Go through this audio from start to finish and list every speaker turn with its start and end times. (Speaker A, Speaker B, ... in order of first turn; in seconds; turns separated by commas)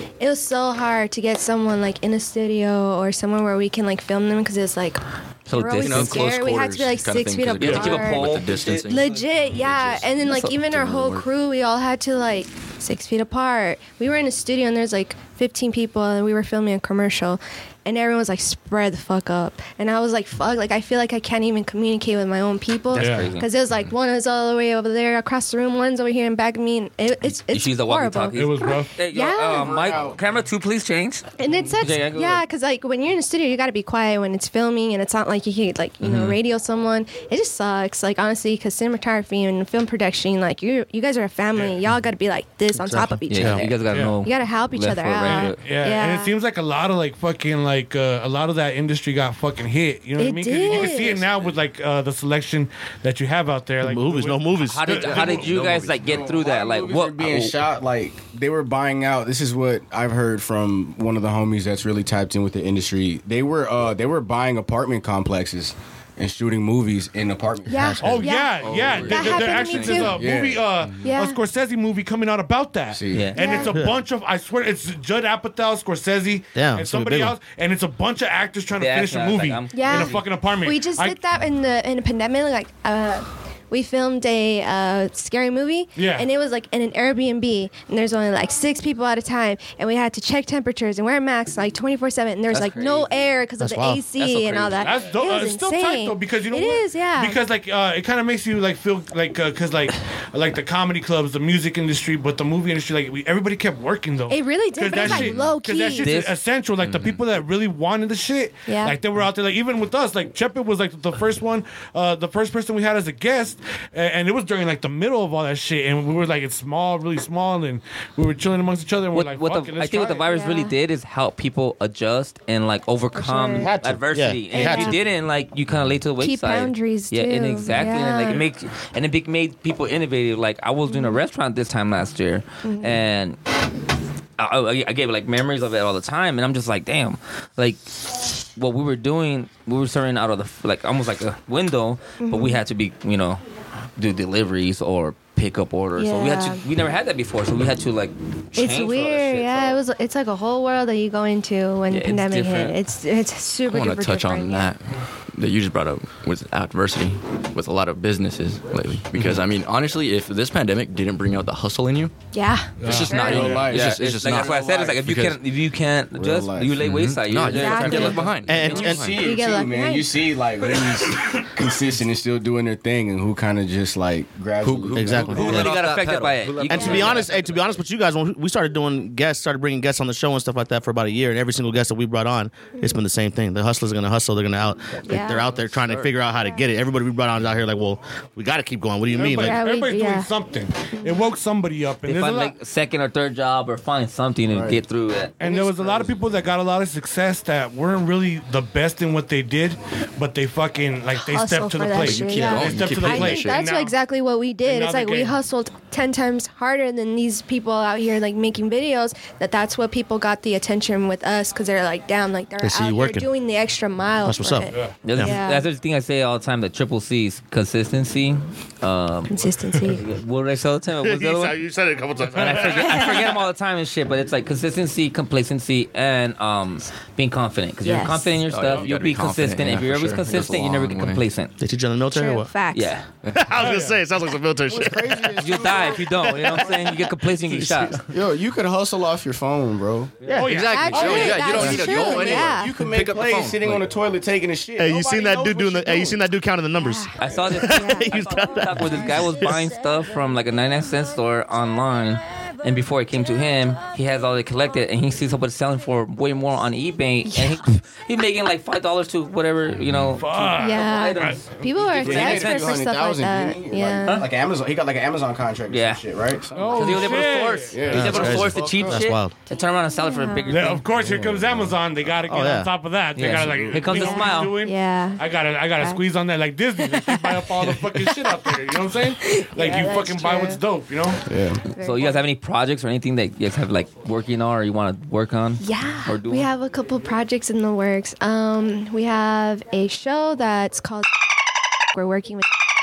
Speaker A: 0.2-30.0, Speaker B: 5.5-6.3, Speaker C: 5.8-11.2, Speaker B: 7.6-9.2, Speaker B: 10.3-10.5, Speaker B: 22.9-23.5, Speaker D: 22.9-23.3, Speaker B: 27.5-32.4, Speaker D: 28.3-29.0, Speaker E: 29.4-30.2, Speaker A: 31.4-46.3, Speaker B: 36.0-36.4, Speaker F: 42.7-43.6, Speaker B: 43.3-45.6, Speaker D: 43.9-44.2, Speaker D: 45.2-55.5, Speaker A: 50.2-51.2, Speaker F: 53.8-54.9, Speaker B: 54.6-57.6, Speaker C: 54.9-56.2, Speaker E: 56.0-68.0, Speaker A: 67.7-70.2, Speaker F: 67.7-68.2, Speaker D: 68.0-81.2, Speaker C: 68.6-70.2, Speaker E: 70.0-70.7, Speaker A: 71.0-71.4, Speaker E: 72.9-73.3, Speaker B: 73.1-73.4, Speaker A: 73.3-73.8, Speaker F: 73.6-74.0, Speaker F: 76.5-77.4, Speaker B: 78.8-80.2, Speaker A: 79.7-97.4, Speaker D: 86.0-86.3, Speaker B: 92.5-93.3, Speaker F: 93.6-94.0, Speaker B: 94.2-95.0, Speaker D: 94.8-120.3, Speaker A: 104.3-106.1, Speaker B: 105.9-106.3, Speaker C: 106.8-107.2, Speaker A: 108.7-109.0, Speaker B: 119.1-133.4, Speaker A: 120.2-120.7, Speaker A: 123.1-123.7, Speaker F: 123.6-125.0, Speaker A: 124.5-125.0, Speaker A: 126.2-128.4, Speaker A: 130.9-131.2, Speaker A: 132.6-133.0, Speaker B: 134.4-143.4, Speaker A: 142.2-142.6, Speaker B: 144.0-149.8, Speaker A: 146.0-146.6, Speaker A: 148.6-154.7, Speaker B: 151.9-152.8, Speaker C: 153.7-162.1, Speaker A: 162.3-163.5, Speaker D: 162.8-163.7, Speaker C: 162.8-165.4, Speaker E: 163.2-164.9, Speaker B: 163.4-168.7, Speaker E: 166.1-166.8, Speaker C: 166.8-169.3, Speaker A: 167.5-168.4, Speaker F: 168.4-169.2, Speaker E: 168.6-175.7, Speaker A: 169.1-170.2, Speaker C: 174.6-177.5, Speaker F: 174.9-175.7, Speaker B: 175.3-177.2, Speaker F: 176.7-189.6, Speaker A: 176.7-177.1, Speaker A: 185.1-185.5, Speaker C: 185.5-186.0, Speaker D: 189.1-192.5, Speaker A: 189.4-190.3, Speaker A: 190.9-191.2, Speaker B: 192.1-195.3, Speaker E: 194.5-194.8, Speaker D: 195.4-203.9, Speaker F: 195.5-196.0, Speaker A: 201.2-215.7, Speaker C: 202.0-203.6, Speaker D: 204.6-205.3, Speaker F: 212.6-213.3, Speaker F: 214.2-215.3, Speaker D: 214.7-215.0, Speaker B: 215.0-221.6, Speaker A: 219.3-220.0, Speaker F: 221.0-223.1, Speaker B: 222.3-231.5, Speaker D: 222.4-223.1, Speaker A: 227.8-228.4, Speaker C: 228.5-231.2, Speaker F: 231.6-232.5, Speaker A: 232.1-232.9, Speaker B: 232.7-233.1, Speaker F: 233.3-235.5, Speaker D: 233.5-234.0, Speaker E: 234.7-236.7, Speaker B: 235.4-238.0, Speaker F: 236.0-238.1, Speaker E: 238.1-240.1, Speaker F: 240.2-240.6, Speaker D: 240.3-241.4, Speaker C: 240.4-243.9, Speaker A: 240.6-242.7, Speaker E: 240.9-246.2, Speaker F: 244.8-249.6, Speaker A: 246.8-248.2, Speaker B: 247.2-262.8, Speaker A: 257.3-257.6, Speaker C: 259.8-260.2, Speaker D: 260.2-261.6, Speaker A: 260.6-264.2, Speaker E: 261.9-269.0, Speaker B: 265.7-266.0, Speaker D: 266.5-268.4, Speaker B: 266.7-270.8, Speaker F: 267.9-269.3, Speaker A: 270.0-270.5, Speaker D: 270.5-281.2, Speaker E: 271.0-271.8, Speaker F: 272.2-272.7, Speaker B: 273.1-274.6, Speaker E: 273.3-273.9, Speaker A: 273.9-275.2, Speaker A: 275.8-276.0, Speaker A: 276.8-280.6, Speaker E: 281.2-281.6, Speaker A: 281.7-282.2, Speaker B: 281.8-286.5, Speaker A: 285.6-291.1, Speaker A: 291.9-292.5